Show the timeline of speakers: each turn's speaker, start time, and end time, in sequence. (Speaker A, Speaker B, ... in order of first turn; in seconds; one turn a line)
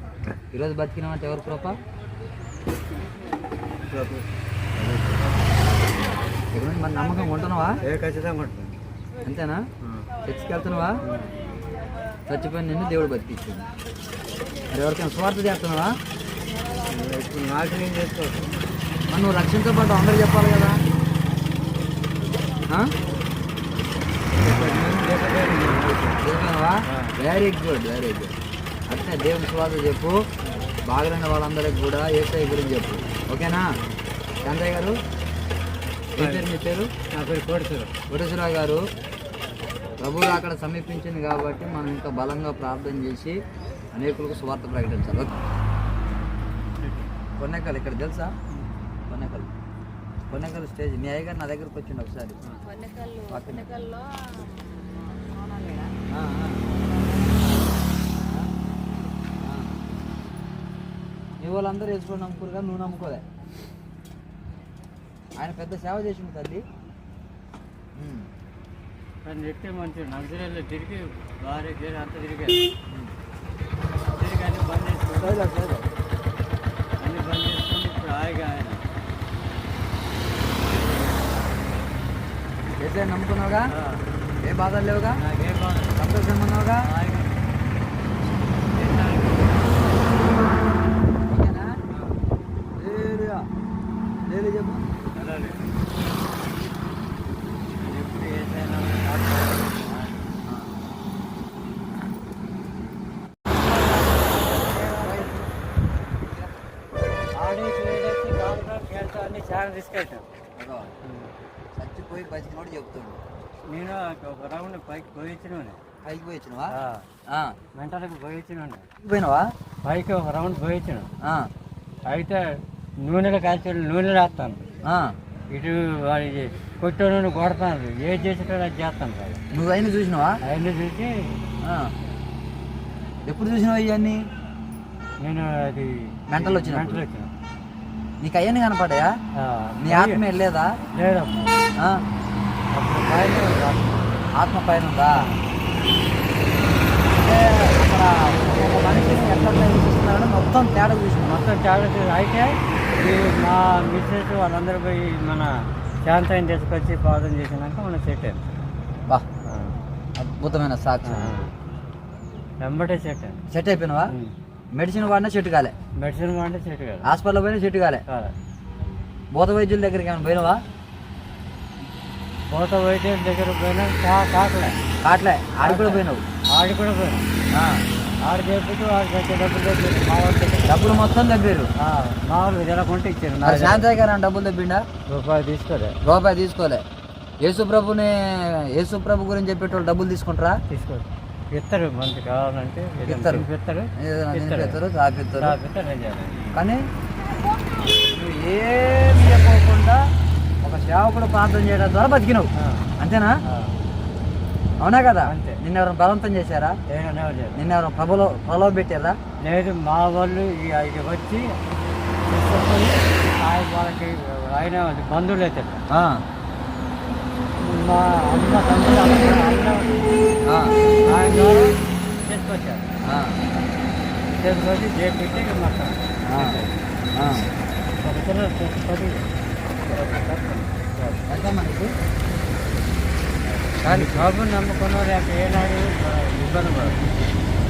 Speaker A: 0.5-1.8
Speaker B: 3.9-5.3
Speaker A: 6.5-7.8
Speaker B: 7.8-8.8
Speaker A: 9.2-9.7
Speaker A: 10.2-11.0
Speaker B: 11.0-11.3
Speaker A: 12.3-13.7
Speaker A: 14.7-16.0
Speaker B: 16.9-18.5
Speaker A: 19.1-20.8
Speaker B: 24.4-26.2
Speaker A: 26.2-28.3
Speaker B: 26.9-27.2
Speaker A: 28.9-30.2
Speaker A: 30.8-33.7
Speaker A: 34.4-35.0
Speaker A: 36.2-36.9
Speaker B: 36.2-36.5
Speaker B: 37.1-37.9
Speaker A: 38.1-38.8
Speaker A: 40.0-43.4
Speaker A: 43.9-45.3
Speaker B: 46.8-47.1
Speaker A: 47.4-48.3
Speaker A: 49.1-49.5
Speaker A: 50.3-52.4
Speaker C: 52.6-55.9
Speaker A: 53.3-53.7
Speaker A: 56.1-56.7
Speaker C: 56.8-58.4
Speaker A: 59.4-59.8
Speaker A: 61.4-63.2
Speaker A: 65.4-66.6
Speaker A: 68.0-68.3
Speaker B: 69.2-72.7
Speaker B: 74.1-75.4
Speaker A: 75.2-75.9
Speaker B: 77.0-78.8
Speaker A: 82.8-83.7
Speaker B: 83.7-84.0
Speaker A: 84.4-85.2
Speaker B: 85.2-86.0
Speaker A: 86.0-86.8
Speaker B: 86.8-87.4
Speaker B: 88.7-89.8
Speaker A: 91.3-91.7
Speaker B: 91.9-92.2
Speaker A: 92.8-93.5
Speaker A: 94.3-94.8
Speaker B: 95.2-95.6
Speaker B: 97.8-100.3
Speaker A: 100.4-100.8
Speaker B: 103.5-105.5
Speaker A: 105.0-105.4
Speaker B: 107.4-110.2
Speaker A: 110.6-110.9
Speaker B: 111.0-111.3
Speaker A: 111.8-113.2
Speaker B: 113.7-115.8
Speaker A: 116.0-116.7
Speaker B: 116.7-117.1
Speaker A: 117.3-117.5
Speaker B: 117.8-118.9
Speaker A: 119.0-119.5
Speaker B: 119.8-121.1
Speaker A: 121.2-121.5
Speaker B: 122.1-124.6
Speaker A: 124.8-125.1
Speaker B: 125.5-129.4
Speaker A: 129.5-130.4
Speaker B: 130.4-131.4
Speaker A: 131.6-131.9
Speaker A: 133.2-134.2
Speaker B: 135.2-137.3
Speaker A: 136.3-137.0
Speaker A: 138.2-139.1
Speaker B: 139.3-140.2
Speaker A: 139.8-140.8
Speaker B: 140.9-141.6
Speaker A: 141.8-142.0
Speaker B: 142.7-144.1
Speaker A: 144.4-145.3
Speaker B: 145.2-145.4
Speaker A: 147.1-151.4
Speaker B: 151.2-158.4
Speaker B: 159.4-159.7
Speaker A: 160.2-161.3
Speaker B: 161.1-161.5
Speaker B: 162.6-163.4
Speaker A: 163.5-164.1
Speaker A: 164.7-165.7
Speaker B: 166.0-167.1
Speaker A: 167.1-168.0
Speaker B: 168.1-168.3
Speaker A: 169.3-170.6
Speaker B: 172.5-174.8
Speaker A: 175.0-176.2
Speaker B: 175.6-177.3
Speaker A: 177.5-177.8
Speaker B: 178.2-180.9
Speaker A: 180.6-181.7
Speaker B: 181.8-183.9
Speaker A: 183.4-184.8
Speaker B: 185.1-186.0
Speaker A: 186.0-186.8
Speaker A: 187.4-190.6
Speaker B: 190.7-194.8
Speaker A: 193.1-193.5
Speaker A: 194.0-195.6
Speaker B: 195.4-196.6
Speaker A: 196.5-196.8
Speaker A: 198.1-200.0
Speaker A: 200.6-203.4
Speaker B: 202.6-202.8
Speaker B: 203.4-203.7
Speaker A: 204.8-206.8
Speaker B: 205.2-205.6
Speaker B: 206.9-207.6
Speaker A: 207.6-209.2
Speaker B: 209.4-211.5
Speaker B: 212.3-215.8
Speaker A: 215.9-216.2
Speaker B: 217.6-220.1
Speaker A: 220.4-220.8
Speaker B: 221.1-222.9
Speaker A: 223.1-223.4
Speaker B: 224.3-226.8
Speaker A: 226.3-226.6
Speaker A: 227.1-227.5
Speaker B: 228.0-229.3
Speaker B: 229.9-231.2
Speaker A: 231.3-231.9
Speaker B: 233.5-237.0
Speaker A: 233.8-234.3